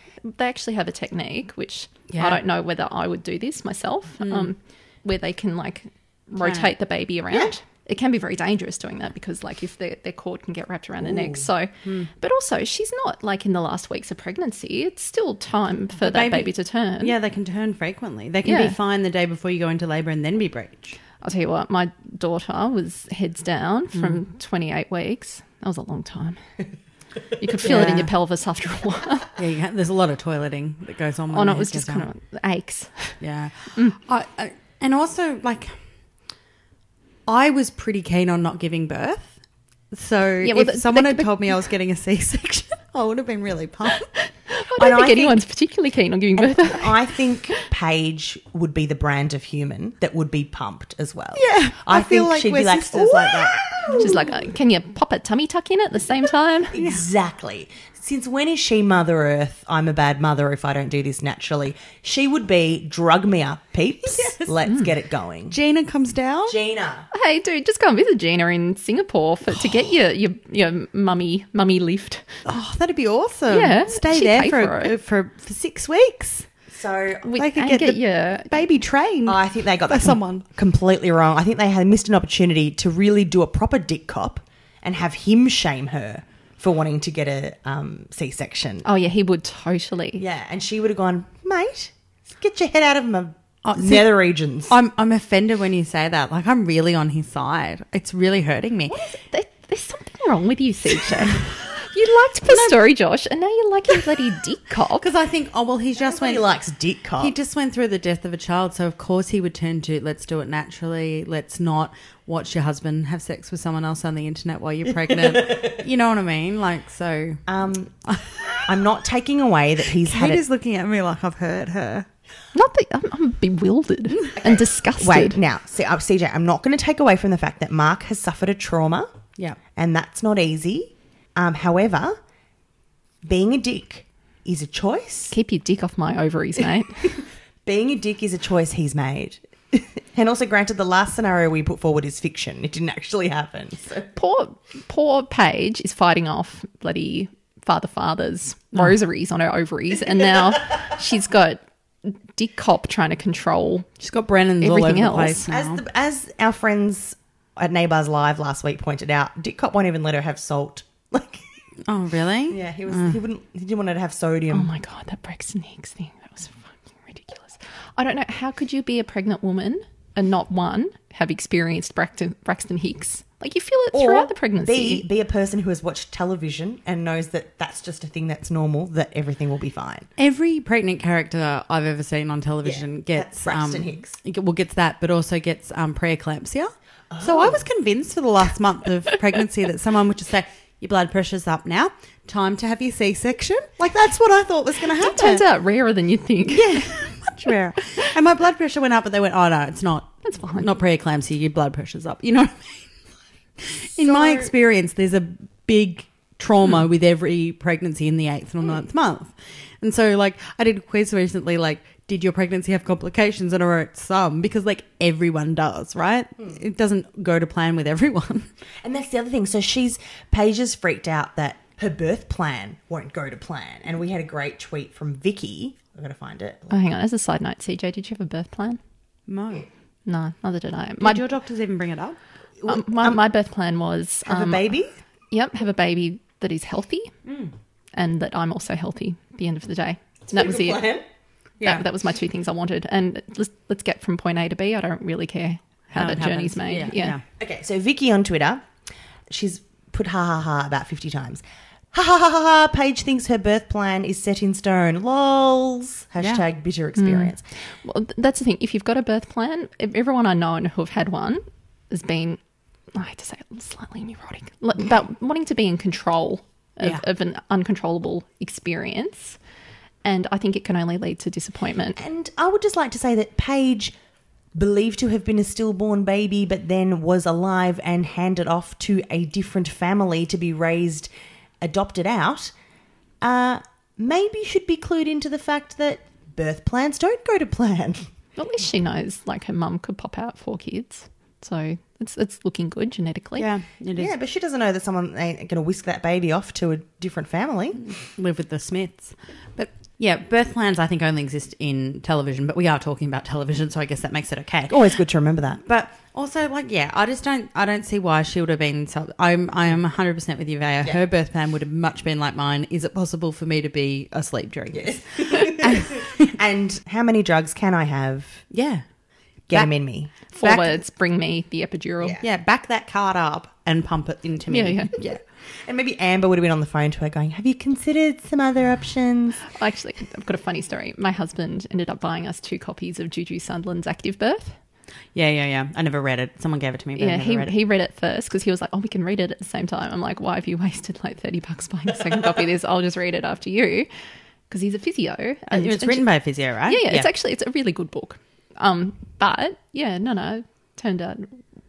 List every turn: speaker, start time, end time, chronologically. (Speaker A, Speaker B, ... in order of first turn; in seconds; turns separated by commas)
Speaker A: 0.2-17.1, Speaker B: 2.1-2.4, Speaker B: 4.2-4.5, Speaker B: 6.4-6.7, Speaker C: 11.0-11.5, Speaker B: 16.0-21.0, Speaker A: 18.4-18.8, Speaker A: 21.2-26.4, Speaker B: 23.9-24.2, Speaker A: 27.4-29.3, Speaker B: 27.6-28.1, Speaker B: 29.4-32.1, Speaker A: 31.3-33.2, Speaker B: 33.2-35.8, Speaker B: 37.3-39.4, Speaker B: 39.9-44.1, Speaker A: 40.4-41.5, Speaker A: 44.3-47.1, Speaker C: 44.8-45.4, Speaker C: 46.4-54.3, Speaker B: 51.3-54.1, Speaker A: 53.9-56.8, Speaker C: 56.7-65.5, Speaker B: 56.8-57.0, Speaker B: 64.0-64.5, Speaker B: 65.5-66.5, Speaker C: 66.5-67.1, Speaker A: 67.1-72.4, Speaker B: 72.4-76.5, Speaker A: 73.5-74.9, Speaker C: 76.7-77.3, Speaker A: 77.2-78.5, Speaker B: 77.4-80.4, Speaker C: 79.2-88.9, Speaker A: 88.8-90.2, Speaker C: 90.2-94.7, Speaker B: 93.6-99.0, Speaker A: 98.9-105.1, Speaker B: 105.0-106.5, Speaker C: 106.0-107.3, Speaker B: 107.2-117.4, Speaker C: 117.5-118.0, Speaker C: 118.6-120.4, Speaker B: 120.0-122.1, Speaker A: 122.5-125.4, Speaker C: 124.4-129.1, Speaker C: 129.8-132.2, Speaker C: 133.2-135.3, Speaker A: 135.3-137.1, Speaker C: 137.6-144.1, Speaker A: 144.2-153.9, Speaker B: 154.0-155.8, Speaker A: 154.6-155.4, Speaker C: 155.5-161.4, Speaker B: 161.9-163.2, Speaker C: 162.5-164.7, Speaker A: 164.5-175.1, Speaker C: 173.9-180.1, Speaker B: 180.2-195.4, Speaker C: 182.6-184.2, Speaker C: 187.1-187.6, Speaker A: 195.0-197.1, Speaker B: 196.5-202.9, Speaker A: 200.2-200.7, Speaker B: 203.6-218.5, Speaker C: 204.0-204.5, Speaker C: 218.8-226.8, Speaker A: 226.7-228.8, Speaker B: 229.3-229.7, Speaker A: 230.1-231.2, Speaker B: 231.0-232.2, Speaker C: 232.6-233.2, Speaker A: 232.7-234.7, Speaker C: 234.2-234.9, Speaker A: 235.3-237.1, Speaker B: 237.2-237.5, Speaker A: 237.9-240.9, Speaker C: 240.3-241.1, Speaker B: 241.6-241.8, Speaker A: 241.6-247.2, Speaker B: 245.9-247.2, Speaker C: 247.4-248.7, Speaker C: 249.3-257.4, Speaker A: 256.9-262.4, Speaker A: 262.9-269.4, Speaker A: 270.0-272.0, Speaker C: 271.9-273.9, Speaker C: 274.6-281.1, Speaker C: 281.6-282.5, Speaker C: 283.2-288.1, Speaker A: 288.4-293.5, Speaker B: 293.4-294.1, Speaker C: 293.9-297.8, Speaker B: 297.8-304.8, Speaker C: 304.7-305.6, Speaker B: 305.6-316.2, Speaker C: 314.7-318.4, Speaker B: 318.5-318.8, Speaker C: 319.5-320.1, Speaker A: 320.3-322.2, Speaker B: 320.4-320.7, Speaker B: 322.2-325.2, Speaker A: 324.5-324.9, Speaker C: 325.6-329.4, Speaker A: 329.6-334.6, Speaker B: 335.1-337.5, Speaker A: 337.0-343.9, Speaker A: 344.5-346.1, Speaker B: 345.5-347.1, Speaker A: 346.6-351.4